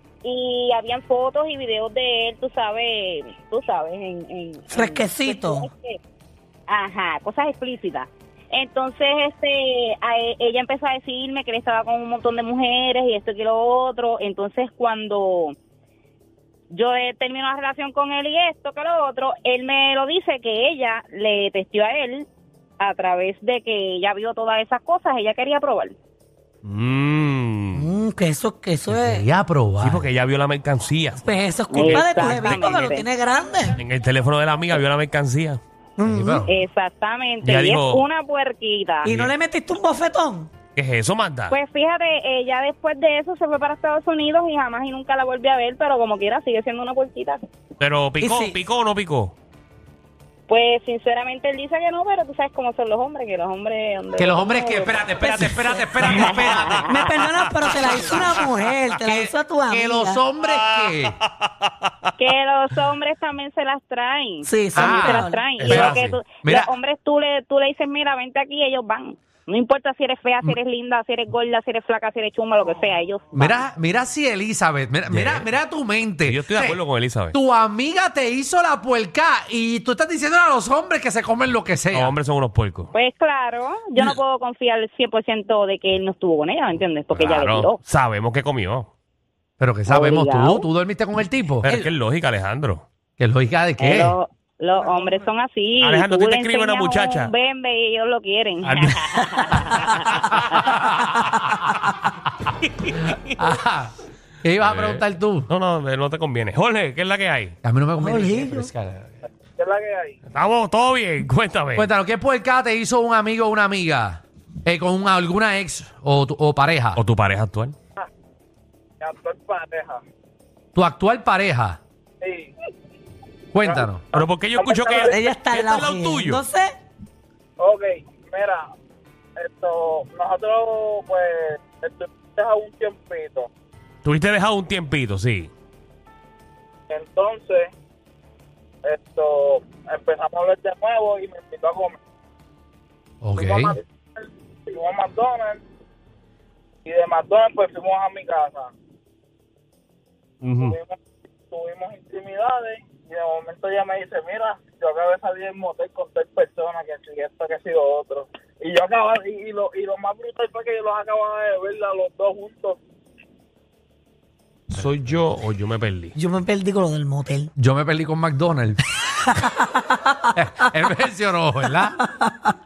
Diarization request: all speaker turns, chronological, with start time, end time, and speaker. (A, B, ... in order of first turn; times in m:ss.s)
0:00.2-0:06.0 A
0:04.7-0:05.7 B
0:06.7-0:15.6 A
0:16.7-0:22.3 A
0:22.8-0:26.0 A
0:26.6-0:27.9 C
0:27.8-0:29.3 B
0:28.9-0:30.1 D
0:29.8-0:31.2 C
0:31.2-0:33.8 B
0:31.7-0:33.1 A
0:31.7-0:32.7 C
0:33.8-0:35.6 C
0:36.0-0:36.5 B
0:36.0-0:36.6 D
0:36.4-0:39.1 A
0:37.4-0:38.0 C
0:39.0-0:39.3 C
0:39.0-0:40.5 B
0:40.8-0:41.6 C
0:41.5-0:47.4 A
0:47.8-0:49.3 C
0:48.2-0:48.6 B
0:50.5-0:57.1 A
0:54.2-0:58.5 D
0:55.4-0:55.6 B
0:56.9-1:00.2 B
0:59.0-1:01.2 D
1:00.4-1:00.9 C
1:02.2-1:13.6 A
1:04.5-1:05.4 B
1:04.8-1:06.7 D
1:05.6-1:06.2 C
1:13.3-1:16.8 D
1:15.1-1:15.5 C
1:16.3-1:17.4 C
1:17.3-1:22.2 D
1:21.9-1:22.9 C
1:22.9-1:27.8 A
1:27.1-1:28.9 C
1:29.6-1:31.9 D
1:29.9-1:30.6 A
1:31.6-1:32.8 C
1:33.2-1:34.1 D
1:33.8-1:34.1 C
1:33.8-1:40.6 A
1:35.8-1:37.3 C
1:38.6-1:40.0 C
1:40.2-1:41.1 D
1:42.8-1:43.2 C
1:43.2-1:45.5 D
1:44.6-1:47.6 C
1:47.6-1:49.1 D
1:48.0-1:48.7 B
1:49.6-1:50.2 E
1:50.3-1:51.9 C
1:51.8-1:57.0 D
1:57.0-1:57.8 C
1:59.0-2:00.0 E
2:00.8-2:01.8 D
2:02.2-2:02.5 E
2:03.5-2:04.0 D
2:03.6-2:05.4 E
2:04.1-2:06.4 C
2:05.1-2:06.7 B
2:07.6-2:08.7 E
2:09.4-2:13.5 E
2:14.0-2:15.5 C
2:16.9-2:17.7 E
2:18.8-2:22.0 E
2:23.2-2:23.8 D
2:23.4-2:25.6 E
2:26.9-2:28.7 E
2:30.4-2:30.8 C
2:30.6-2:31.0 E
2:31.5-2:42.8 E
2:44.7-2:46.2 C
2:46.2-2:47.5 B
2:47.6-2:48.9 D
2:50.3-2:52.0 D